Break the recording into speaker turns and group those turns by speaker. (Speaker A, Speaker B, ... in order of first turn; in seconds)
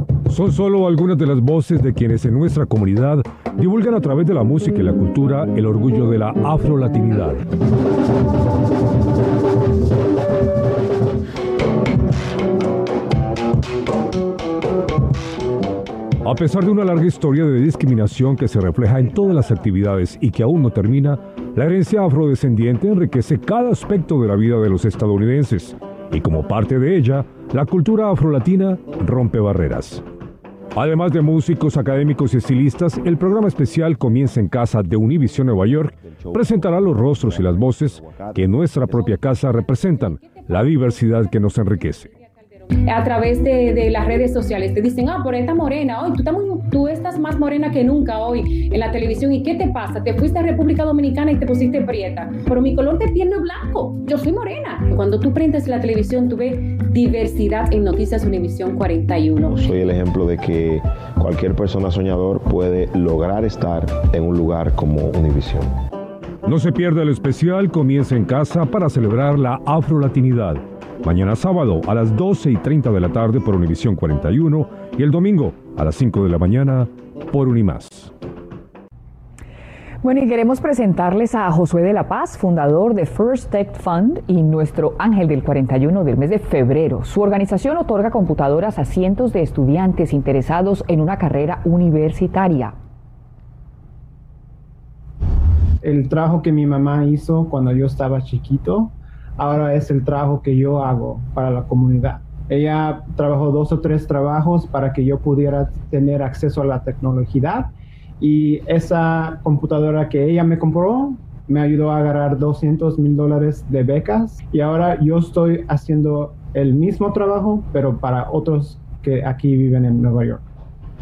Speaker A: 0.3-7.4, 16.2-30.0, 30.8-42.1, 66.5-78.1
Speaker B: 35.4-39.4, 59.4-65.7
Speaker C: 39.5-59.7
Speaker D: 80.0-92.8
Speaker E: 95.8-120.4